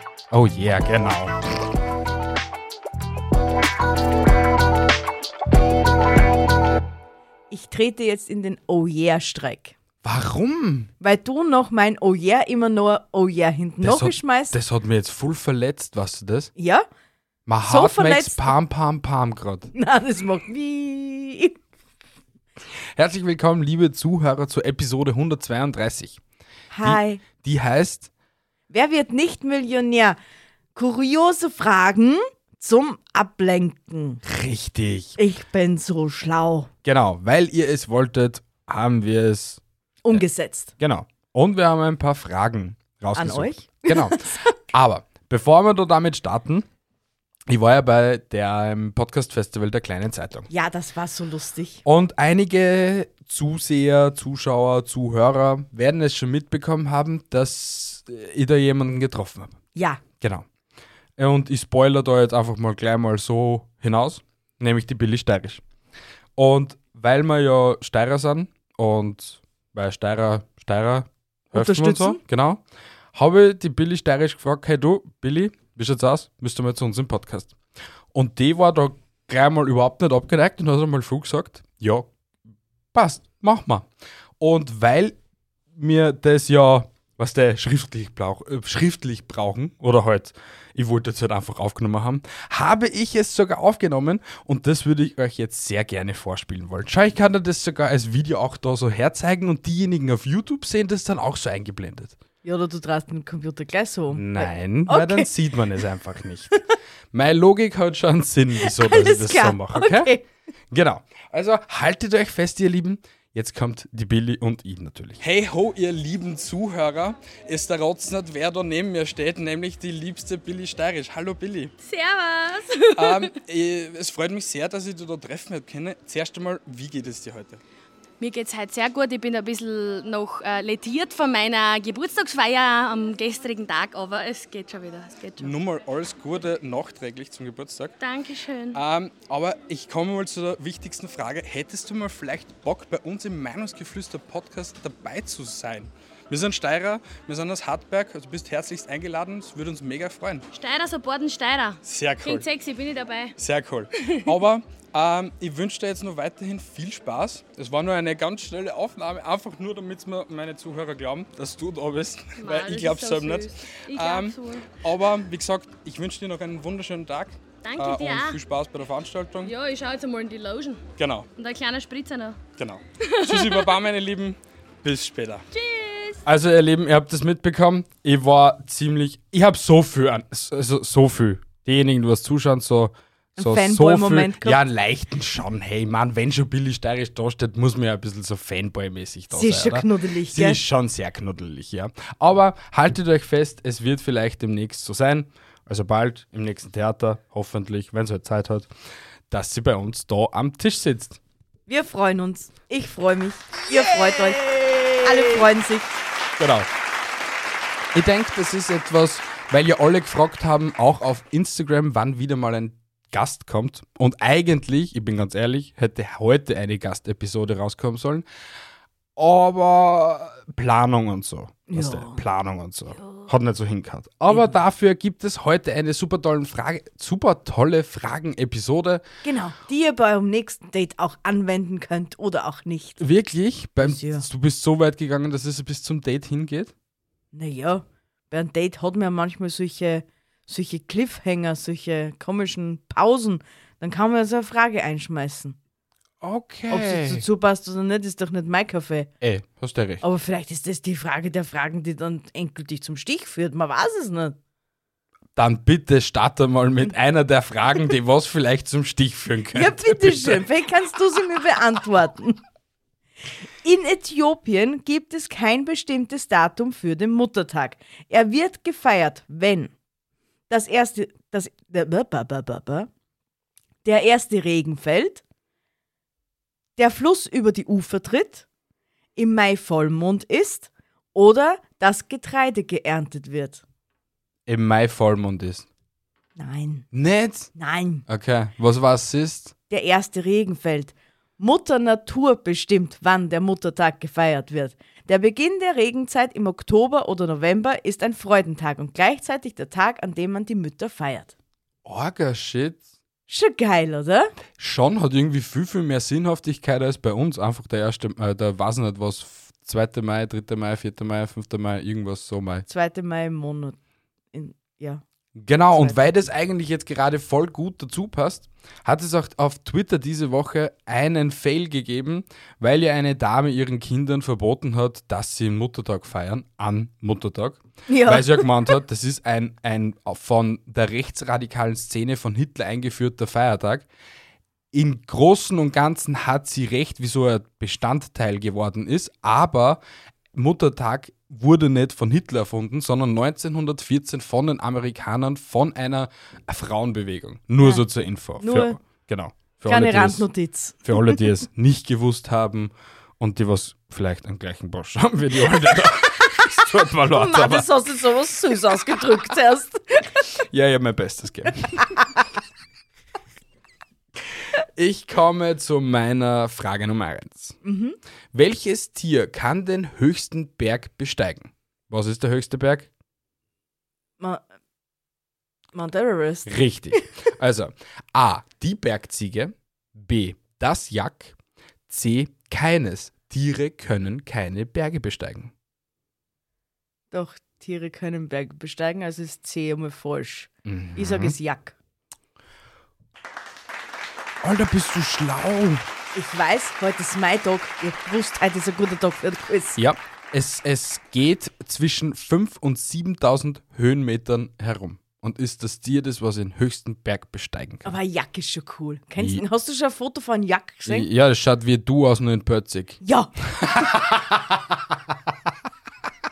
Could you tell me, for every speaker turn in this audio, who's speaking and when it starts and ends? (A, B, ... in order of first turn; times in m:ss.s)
0:00.3-0:01.4 A
0:07.5-0:09.8 B
0:10.0-0:10.9 A
0:11.0-0:14.6 B
0:13.8-0:16.5 A
0:16.6-0:16.8 B
0:17.5-0:19.7 A
0:17.6-0:18.5 B
0:19.7-0:21.6 B
0:23.0-0:26.2 A
0:26.7-0:27.2 B
0:26.8-0:28.1 A
0:28.7-0:30.2 B
0:30.7-0:34.2 B
0:34.2-0:35.2 A
0:35.2-0:36.7 B
0:36.8-0:39.6 A
0:40.0-0:40.7 B
0:40.8-0:46.6 A
0:43.1-0:44.5 B
0:47.5-0:50.5 A
0:50.5-0:51.8 B
0:51.8-0:59.6 A
0:59.7-1:00.0 B
1:00.2-1:00.4 A
1:01.2-1:05.6 A
1:06.4-1:12.6 A
1:11.5-1:12.2 B
1:13.1-1:17.5 A
1:18.1-1:22.1 A
1:22.9-1:23.9 A
1:24.4-1:25.2 A
1:25.7-1:42.2 A
1:42.4-1:45.3 B
1:44.1-1:46.5 A
1:47.1-1:50.1 A
1:48.6-1:50.2 B
1:50.7-2:01.7 A
2:01.8-2:03.3 C
2:02.9-2:07.6 A
2:08.2-2:15.5 C
2:15.4-2:18.0 A
2:18.0-2:18.8 C
2:18.7-2:30.5 A
2:30.5-2:33.3 C
2:31.8-2:32.4 A
2:33.4-2:49.5 A
2:34.0-2:34.3 C
2:42.4-2:44.8 C
2:47.6-2:48.4 C
2:49.4-2:50.8 C
2:51.0-2:51.3 A
2:51.4-2:52.4 C
2:52.6-2:55.4 A
2:53.0-2:53.7 C
2:55.5-2:56.2 C
2:56.2-3:18.7 A
3:03.4-3:04.6 B
3:09.3-3:10.6 B
3:19.3-3:21.2 A
3:21.7-3:24.4 B
3:23.7-3:25.4 A
3:25.0-3:26.0 B
3:26.4-3:26.7 A
3:27.9-3:38.2 A
3:39.2-3:49.0 A
3:41.7-3:42.2 B
3:49.2-3:53.0 B
3:53.0-3:56.7 A
3:53.8-3:54.2 B
3:57.3-4:05.6 B
4:06.2-4:07.2 A
4:06.7-4:09.1 B
4:09.2-4:10.0 A
4:10.0-4:14.4 B
4:15.4-4:20.4 A
4:19.5-4:22.4 B
4:23.6-4:29.7 B
4:30.5-4:32.9 B
4:33.8-4:35.2 B
4:36.8-4:38.4 B
4:39.2-4:43.6 B
4:44.5-4:45.6 A
4:46.4-4:46.8 B
4:46.9-4:47.5 A
4:47.6-4:48.0 B
4:48.1-4:49.5 A
4:49.7-5:01.3 B
5:01.8-5:02.8 A
5:03.3-5:04.3 B
5:04.6-5:12.6 A
5:12.7-5:13.8 B
5:14.3-5:15.0 B
5:15.4-5:33.8 A
5:15.7-5:16.0 B
5:27.9-5:28.5 B
5:34.7-5:39.8 A
5:40.3-5:50.3 A
5:48.4-5:48.8 B
5:49.6-5:51.2 B
5:50.8-5:57.7 A
5:56.4-6:00.3 B
6:00.5-6:02.0 A
6:04.8-6:07.6 A
6:07.6-6:08.0 B
6:08.3-6:12.9 A
6:14.2-6:14.4 B
6:15.7-6:17.0 B
6:16.4-6:21.4 A
6:21.9-6:25.5 A
6:27.1-6:31.7 B
6:30.6-6:31.3 A
6:34.4-6:35.8 A
6:36.1-6:39.8 B
6:39.8-6:47.9 A
6:47.8-6:51.1 B
6:49.2-6:49.4 A
6:50.8-6:53.0 A
6:53.0-6:53.3 B
6:53.6-6:54.8 A